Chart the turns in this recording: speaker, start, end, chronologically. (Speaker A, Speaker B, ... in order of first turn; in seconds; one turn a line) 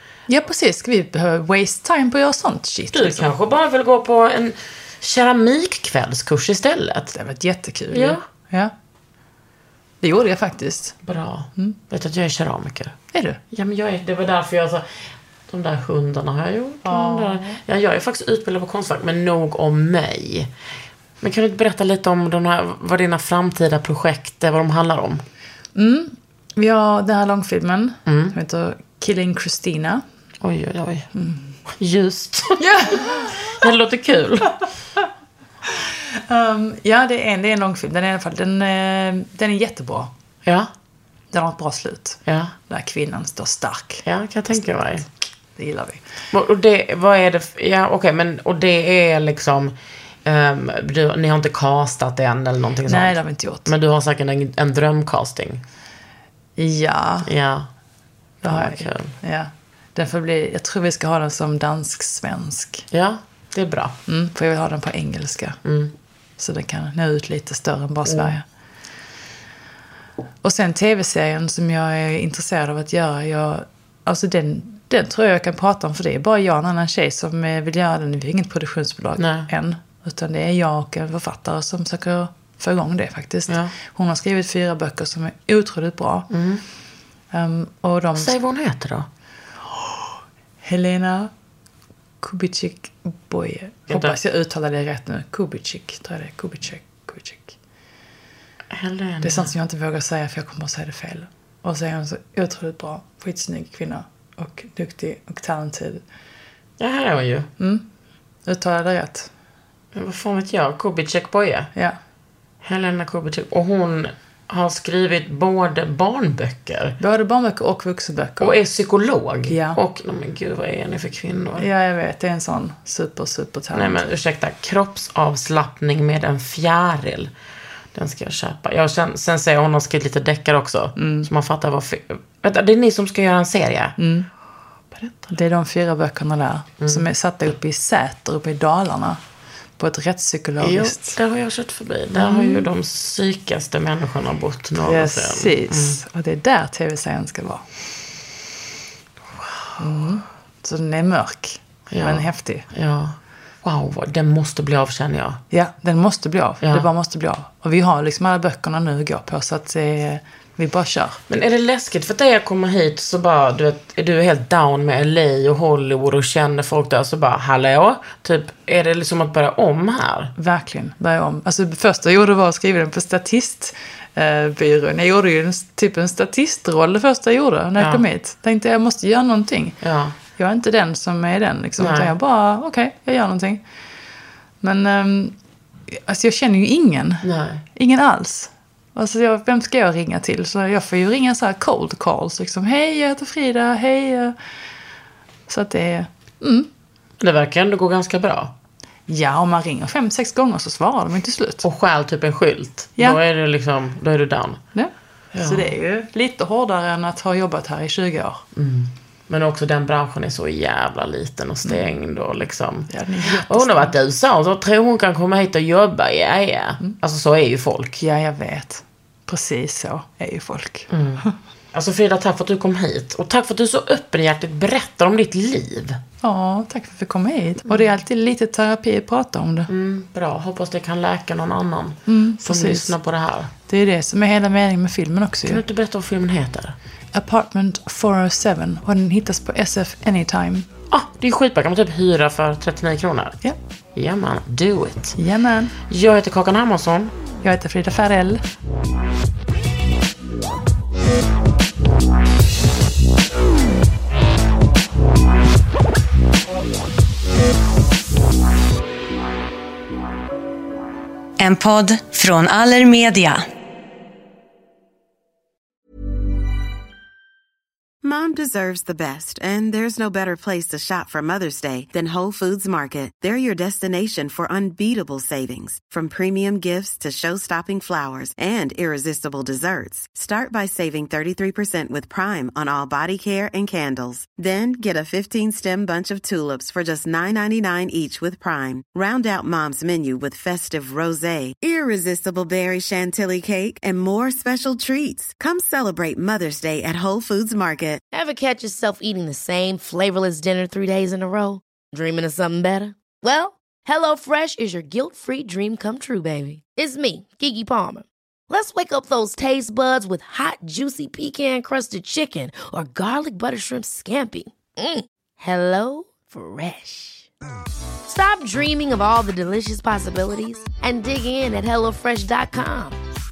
Speaker A: 0.3-3.3
Speaker B: 2.9-7.1
Speaker A: 7.1-8.7
Speaker B: 7.9-8.2
Speaker A: 10.0-10.9
Speaker B: 11.0-13.0
Speaker A: 13.1-13.4
Speaker B: 13.5-20.5
Speaker A: 16.8-17.6
Speaker B: 21.2-25.2
Speaker A: 25.7-30.0
Speaker B: 28.1-28.3
Speaker B: 30.4-31.1
Speaker A: 31.1-31.5
Speaker B: 31.6-34.6
Speaker A: 32.6-33.4
Speaker A: 35.7-40.1
Speaker B: 40.4-40.7
Speaker A: 41.3-44.0
Speaker B: 42.2-42.5
Speaker B: 44.0-45.1
Speaker A: 45.5-46.0
Speaker B: 46.3-55.6
Speaker A: 52.9-53.7
Speaker A: 56.6-57.3
Speaker B: 57.2-57.7
Speaker B: 58.4-59.1
Speaker A: 58.4-62.8
Speaker B: 62.9-64.0
Speaker A: 64.1-65.6
Speaker B: 65.6-65.9
Speaker A: 66.4-68.4
Speaker B: 68.1-68.3
Speaker A: 70.4-86.3
Speaker B: 79.2-79.5
Speaker B: 83.5-83.7
Speaker B: 86.3-86.6
Speaker A: 87.3-88.3
Speaker B: 88.1-89.1
Speaker A: 89.8-90.0
Speaker A: 90.6-91.3
Speaker A: 92.2-97.5
Speaker B: 93.9-94.2
Speaker B: 98.7-99.5
Speaker A: 99.2-106.0
Speaker B: 106.8-107.5
Speaker A: 107.6-107.8
Speaker A: 108.4-109.3
Speaker B: 109.9-111.7
Speaker B: 112.6-117.0
Speaker A: 117.0-118.6
Speaker B: 118.4-121.7
Speaker A: 119.5-119.8
Speaker A: 121.6-124.1
Speaker B: 123.7-127.3
Speaker B: 127.9-133.9
Speaker A: 131.0-131.3
Speaker A: 134.0-134.3
Speaker A: 135.3-139.2
Speaker B: 136.8-137.1
Speaker A: 139.8-141.2
Speaker B: 140.6-146.0
Speaker A: 142.1-142.7
Speaker A: 144.8-147.7
Speaker B: 149.3-149.9
Speaker A: 149.8-152.6
Speaker B: 151.9-155.4
Speaker A: 155.5-161.2
Speaker B: 156.6-156.9
Speaker B: 161.3-170.3
Speaker A: 170.3-179.8
Speaker B: 177.8-178.0
Speaker B: 179.8-180.2
Speaker A: 180.3-183.6
Speaker B: 181.8-182.1
Speaker A: 184.6-185.3
Speaker A: 185.9-194.3
Speaker B: 187.2-187.6
Speaker A: 195.5-196.7
Speaker B: 197.2-198.5
Speaker A: 199.1-201.6
Speaker B: 201.6-204.6
Speaker A: 204.7-208.4
Speaker B: 205.3-205.7
Speaker B: 208.5-218.0
Speaker A: 212.9-213.9
Speaker A: 218.0-221.3
Speaker B: 220.9-226.0
Speaker A: 226.2-229.7
Speaker B: 229.7-233.5
Speaker A: 232.1-232.9
Speaker A: 233.7-235.6
Speaker B: 235.4-236.8
Speaker A: 237.1-240.7
Speaker B: 240.9-243.4
Speaker B: 243.9-245.2
Speaker A: 245.2-245.7
Speaker B: 245.9-247.1
Speaker A: 247.4-248.4
Speaker C: 261.4-263.4
Speaker D: 268.0-298.0
Speaker E: 298.1-317.3
Speaker E: 318.1-323.0